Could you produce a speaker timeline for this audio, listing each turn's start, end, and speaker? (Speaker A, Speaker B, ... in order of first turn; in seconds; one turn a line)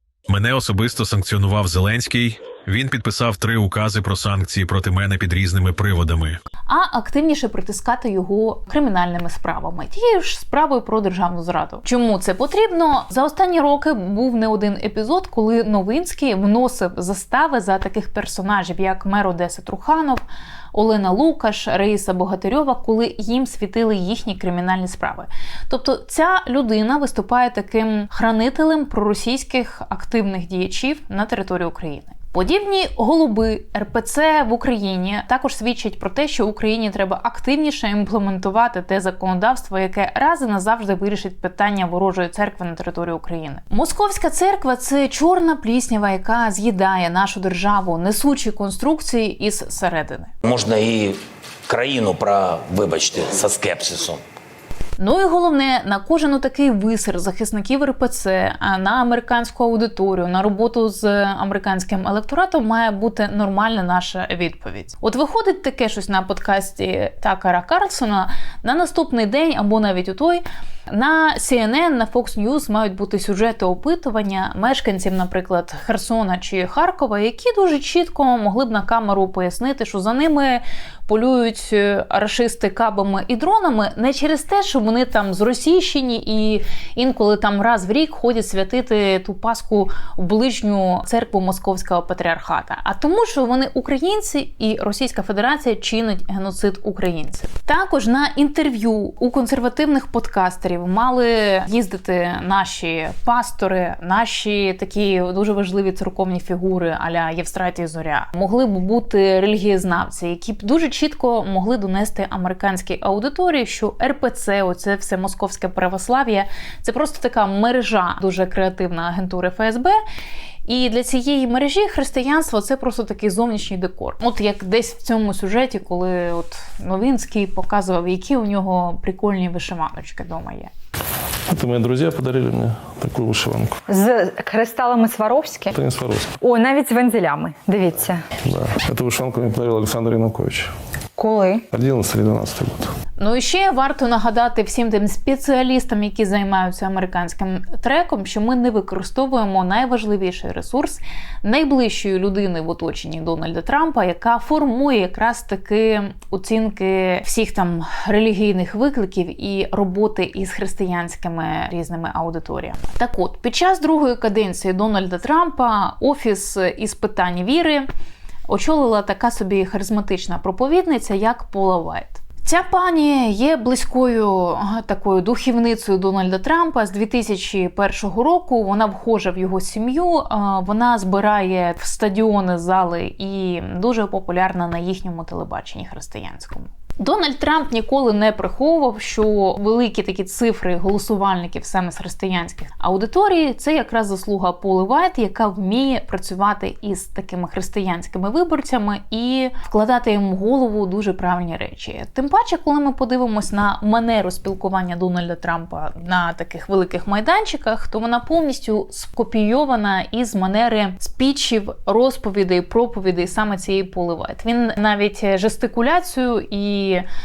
Speaker A: 0.3-6.4
Speaker B: 6.7-20.2
Speaker B: 20.7-50.3
Speaker C: 50.4-54.2
Speaker B: 55.0-120.0
Speaker B: 120.7-130.7
Speaker D: 131.5-133.8
Speaker E: 133.9-135.7
Speaker D: 135.7-136.3
Speaker E: 136.4-138.2
Speaker D: 138.4-140.7
Speaker E: 141.2-141.6
Speaker D: 141.7-142.9
Speaker B: 143.2-167.9
Speaker B: 168.5-217.0